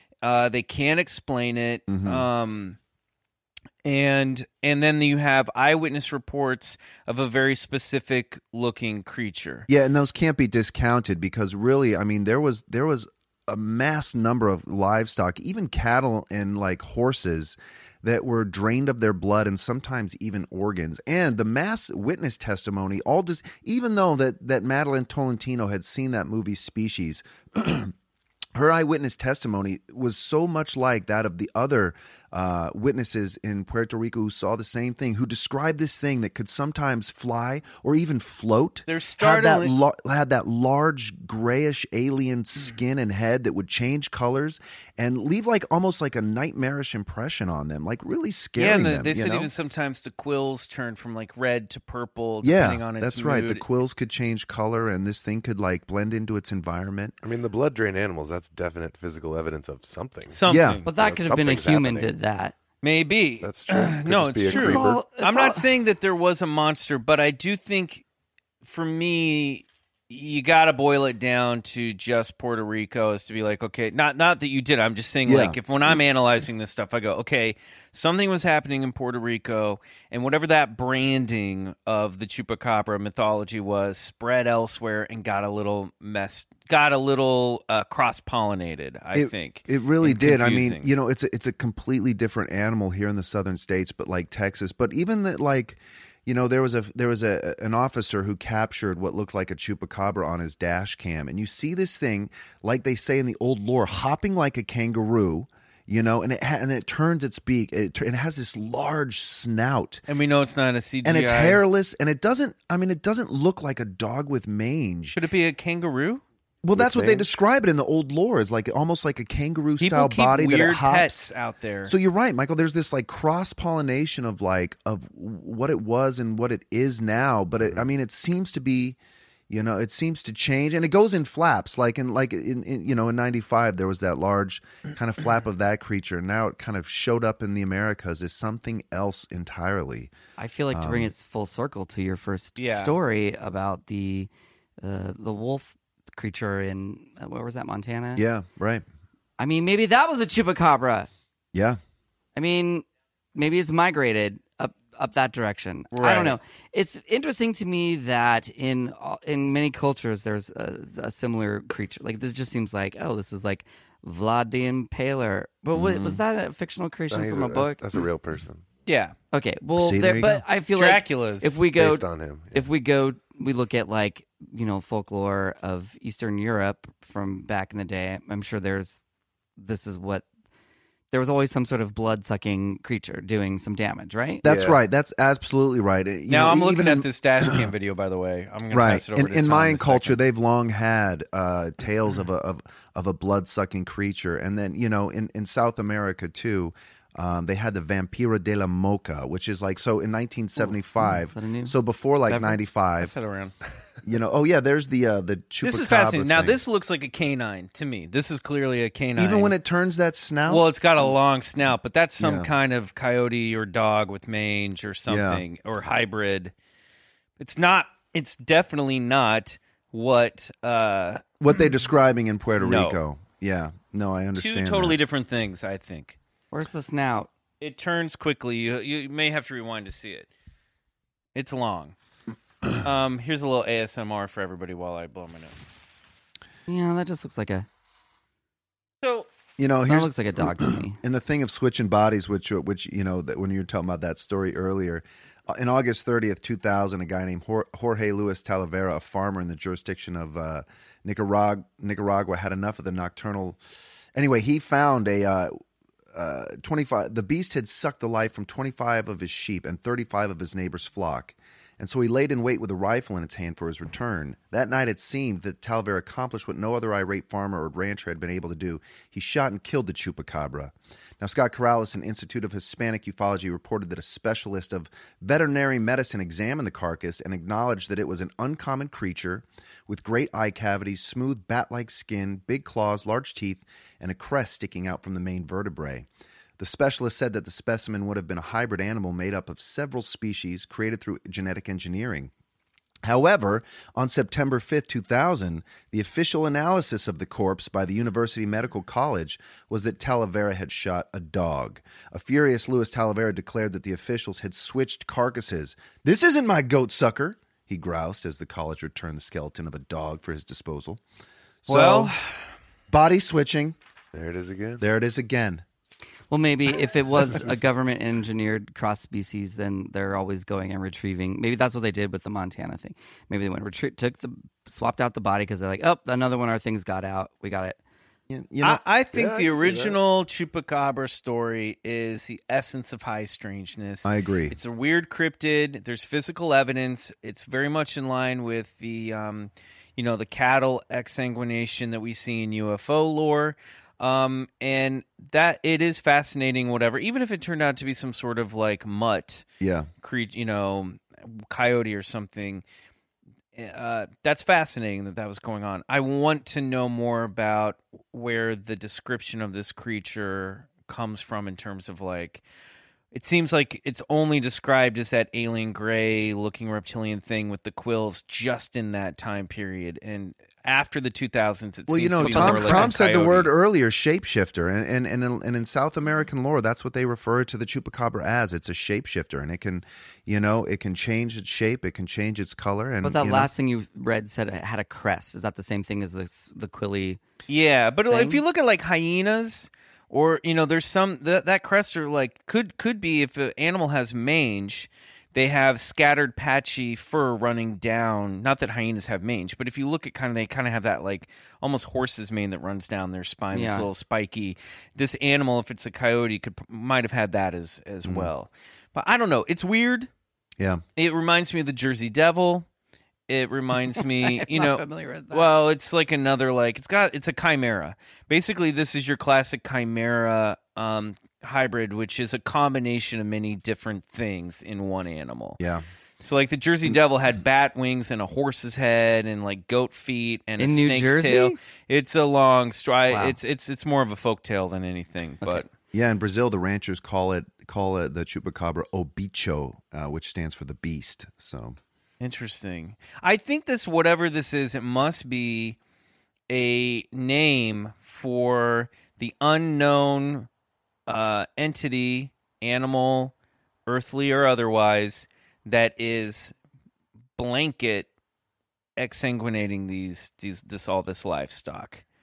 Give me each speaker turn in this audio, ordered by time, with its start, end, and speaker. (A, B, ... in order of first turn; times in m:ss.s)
0:00.2-0:02.8 A
0:01.9-0:02.2 B
0:03.8-0:09.7 A
0:09.7-0:27.9 B
0:28.5-0:49.5 B
0:38.9-0:39.7 A
0:48.6-0:53.6 A
0:52.4-0:57.2 B
0:57.2-1:02.2 C
1:00.3-1:00.8 A
1:00.4-1:00.8 B
1:00.8-1:02.5 D
1:02.8-1:08.0 A
1:03.4-1:05.0 C
1:04.4-1:05.6 D
1:08.6-1:30.9 A
1:15.2-1:15.6 B
1:29.1-1:50.0 B
1:50.1-1:51.6 A
1:51.0-1:55.2 B
1:55.1-1:56.2 A
1:56.6-2:01.2 B
1:56.8-1:57.3 C
1:59.8-2:01.9 A
2:01.8-2:09.0 B
2:09.5-2:20.1 B
2:20.4-2:24.3 D
2:20.7-2:21.1 B
2:22.6-2:23.0 A
2:24.8-2:28.2 D
2:28.2-2:28.8 B
2:29.4-2:31.1 D
2:31.5-2:31.8 B
2:32.3-2:48.0 D
2:35.9-2:36.4 A
2:45.7-2:46.2 B
2:47.1-2:48.6 C
2:48.8-2:49.1 A
2:49.3-2:59.0 D
2:49.8-2:50.4 B
2:50.7-2:51.6 A
2:51.7-2:52.6 C
2:59.6-3:00.2 D
3:01.1-3:04.4 D
3:04.4-3:07.6 B
3:04.4-3:04.8 C
3:06.3-3:10.2 A
3:08.7-3:23.1 B
3:21.0-3:21.8 D
3:22.3-3:23.6 A
3:24.0-3:26.6 B
3:25.6-3:29.5 A
3:29.2-3:30.7 B
3:30.5-3:36.5 A
3:32.2-3:32.5 B
3:35.1-3:35.4 B
3:37.4-3:41.2 A
3:41.4-3:45.0 B
3:42.6-3:43.0 A
3:44.3-3:46.2 A
3:46.5-3:47.3 D
3:47.6-3:50.3 A
3:51.3-3:51.9 A
3:52.8-3:55.7 A
3:56.7-3:57.7 D
3:59.0-3:59.3 A
3:59.6-4:13.6 B
3:59.9-4:01.0 D
4:14.1-4:15.5 B
4:16.1-4:46.1 B
4:46.6-4:52.3 B
4:53.0-5:11.0 B
5:11.6-5:12.1 B
5:11.7-5:12.3 A
5:12.9-5:13.8 B
5:14.1-5:14.8 C
5:14.8-5:15.6 B
5:16.3-5:27.8 D
5:28.3-5:28.8 B
5:28.6-5:49.4 A
5:29.1-5:30.0 C
5:34.0-5:34.6 B
5:49.6-5:49.9 B
5:50.0-5:52.6 A
5:53.5-6:02.4 A
6:03.1-6:13.5 A
6:11.9-6:23.5 B
6:12.2-6:12.9 D
6:23.0-6:27.2 D
6:27.5-6:50.1 A
6:28.1-6:28.4 D
6:43.5-6:43.9 D
6:48.0-6:48.3 B
6:50.6-6:50.8 B
6:51.0-6:52.7 A
6:53.3-7:05.6 A
6:54.0-6:55.5 D
7:05.6-7:05.8 B
7:06.2-7:15.7 A
7:10.6-7:11.6 D
7:13.1-7:13.4 D
7:15.9-7:21.8 B
7:22.2-7:25.8 A
7:26.5-7:30.5 A
7:31.1-7:33.3 A
7:33.9-7:36.5 A
7:37.4-7:38.1 A
7:39.0-7:42.0 A